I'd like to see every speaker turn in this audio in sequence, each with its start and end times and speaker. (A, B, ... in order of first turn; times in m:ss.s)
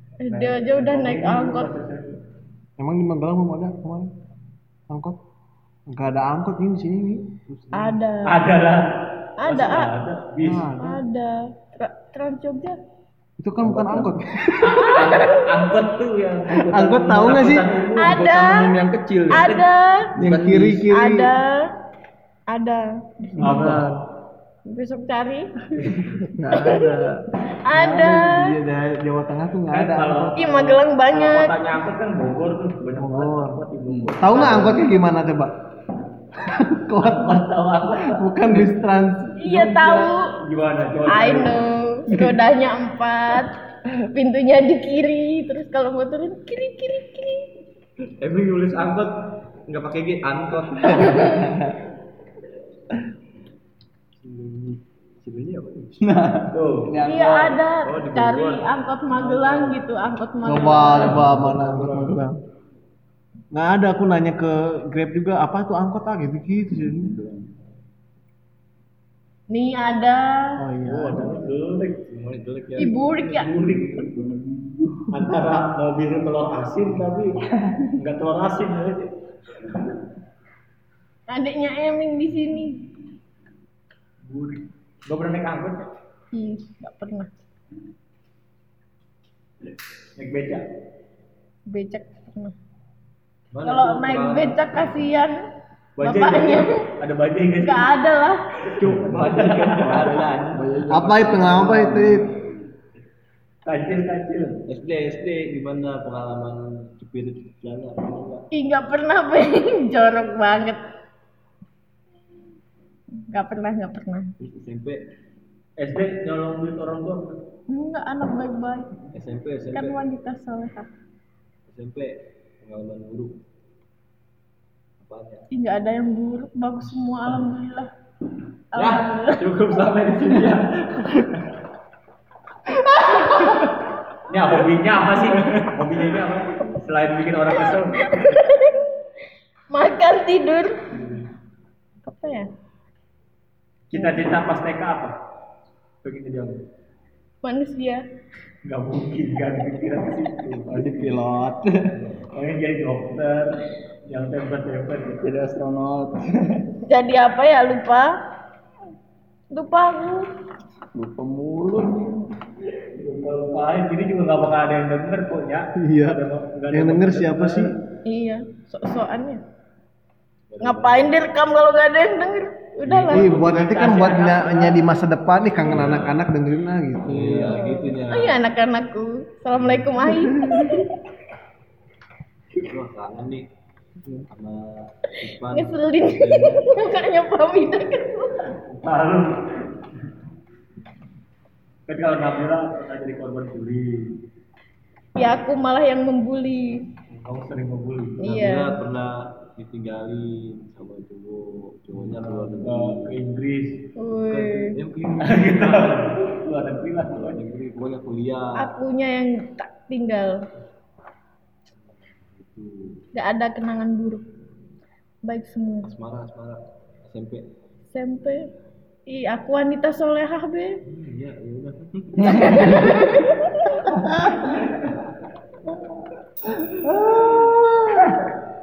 0:00.2-0:01.7 A
0:00.3-0:02.2 B
0:02.8-0:04.1 C
0:04.9-0:05.2 C
0:05.9-0:08.0 C
0:07.7-0:08.4 A
0:08.2-0:08.9 B
0:09.4-0:09.9 A
0:09.4-0:10.7 B
0:10.4-0:11.0 C
0:10.8-0:12.8 A
0:13.4-0:15.0 C
0:14.6-0:18.2 B
0:14.6-0:15.5 A
0:16.7-0:17.7 C
0:18.0-0:19.6 D
0:18.0-0:18.8 A
0:19.3-0:20.1 A
0:19.3-0:19.6 B
0:20.2-0:20.9 D
0:20.2-0:21.3 C
0:20.9-0:21.7 A
0:22.5-0:23.7 A
0:23.4-0:24.0 C
0:23.4-0:24.0 B
0:24.7-0:25.5 A
0:25.8-0:26.2 B
0:26.3-0:30.5 C
0:26.5-0:27.0 A
0:27.6-0:28.6 A
0:29.7-0:34.8 B
0:30.4-0:31.5 A
0:33.0-0:33.6 C
0:33.9-0:34.2 D
0:34.2-0:35.5 C
0:36.4-0:39.9 C
0:37.0-0:38.3 B
0:38.5-0:38.7 D
0:39.4-0:40.3 A
0:39.9-0:41.6 B
0:41.1-0:47.5 A
0:48.2-0:49.1 E
0:49.7-0:51.3 E
0:50.9-0:51.7 D
0:51.0-0:51.4 A
0:54.2-0:56.0 E
0:56.0-0:57.6 D
0:56.5-0:56.9 B
0:57.0-1:01.2 A
0:57.8-0:59.8 E
1:00.4-1:02.4 C
1:00.9-1:02.0 B
1:03.5-1:07.1 C
1:06.8-1:07.5 D
1:09.5-1:10.5 A
1:10.6-1:11.4 C
1:10.8-1:12.0 B
1:12.1-1:13.0 E
1:12.8-1:13.5 A
1:12.8-1:14.1 B
1:13.6-1:15.3 D
1:15.1-1:17.4 B
1:17.7-1:18.0 D
1:18.0-1:19.1 B
1:21.3-1:22.8 A
1:24.3-1:25.9 B
1:26.3-1:27.3 A
1:30.2-1:30.6 B
1:31.7-1:32.5 A
1:33.5-1:34.6 E
1:33.6-1:35.4 A
1:36.0-1:37.9 B
1:36.0-1:36.9 A
1:37.6-1:38.4 A
1:38.7-1:40.6 B
1:38.8-1:40.3 E
1:38.9-1:42.3 D
1:40.9-1:42.3 C
1:43.7-1:44.6 B
1:44.7-1:48.5 E
1:48.5-1:50.8 A
1:53.3-1:54.3 A
1:54.4-1:55.0 E
1:55.8-1:57.4 B
1:57.7-1:58.9 A
1:59.1-2:00.0 E
1:59.7-2:00.9 A
2:01.7-2:03.4 E
2:05.0-2:05.5 E
2:05.5-2:07.9 A
2:08.7-2:09.5 A
2:08.8-2:10.7 E
2:10.0-2:10.6 B
2:13.0-2:13.6 A
2:14.3-2:18.1 B
2:18.0-2:18.8 A
2:19.7-2:20.7 A
2:22.0-2:22.5 A
2:23.9-2:25.1 B
2:24.0-2:24.2 A
2:26.0-2:26.6 B
2:27.4-2:28.0 A
2:28.6-2:31.3 B
2:30.7-2:32.0 D
2:32.3-2:35.2 B
2:35.2-2:36.6 D
2:36.9-2:38.1 A
2:39.5-2:40.3 A
2:41.0-2:42.2 D
2:42.9-2:47.8 B
2:45.8-2:47.7 C
2:48.1-2:49.4 A
2:50.5-2:51.1 E
2:50.6-2:53.3 A
2:52.9-2:53.3 E
2:53.1-2:54.8 B
2:53.1-2:57.6 C
2:55.7-2:56.2 E
2:57.0-2:58.4 E
2:57.5-3:00.9 A
3:02.6-3:03.4 E
3:04.3-3:06.7 E
3:05.5-3:08.4 A
3:08.7-3:09.6 B
3:11.9-3:14.2 B
3:15.2-3:16.8 A
3:17.1-3:18.4 B
3:18.2-3:18.8 A
3:18.2-3:23.2 E
3:21.9-3:23.8 B
3:24.0-3:24.8 A
3:24.3-3:26.2 E
3:25.2-3:27.4 B
3:27.2-3:28.7 E
3:28.6-3:30.4 A
3:32.3-3:33.0 E
3:33.1-3:34.3 A
3:35.2-3:35.9 A
3:35.8-3:37.4 E
3:37.9-3:38.5 A
3:39.1-3:40.8 A
3:40.9-3:42.8 E
3:42.2-3:43.0 D
3:42.2-3:43.9 A
3:43.9-3:44.4 D
3:46.6-3:48.2 D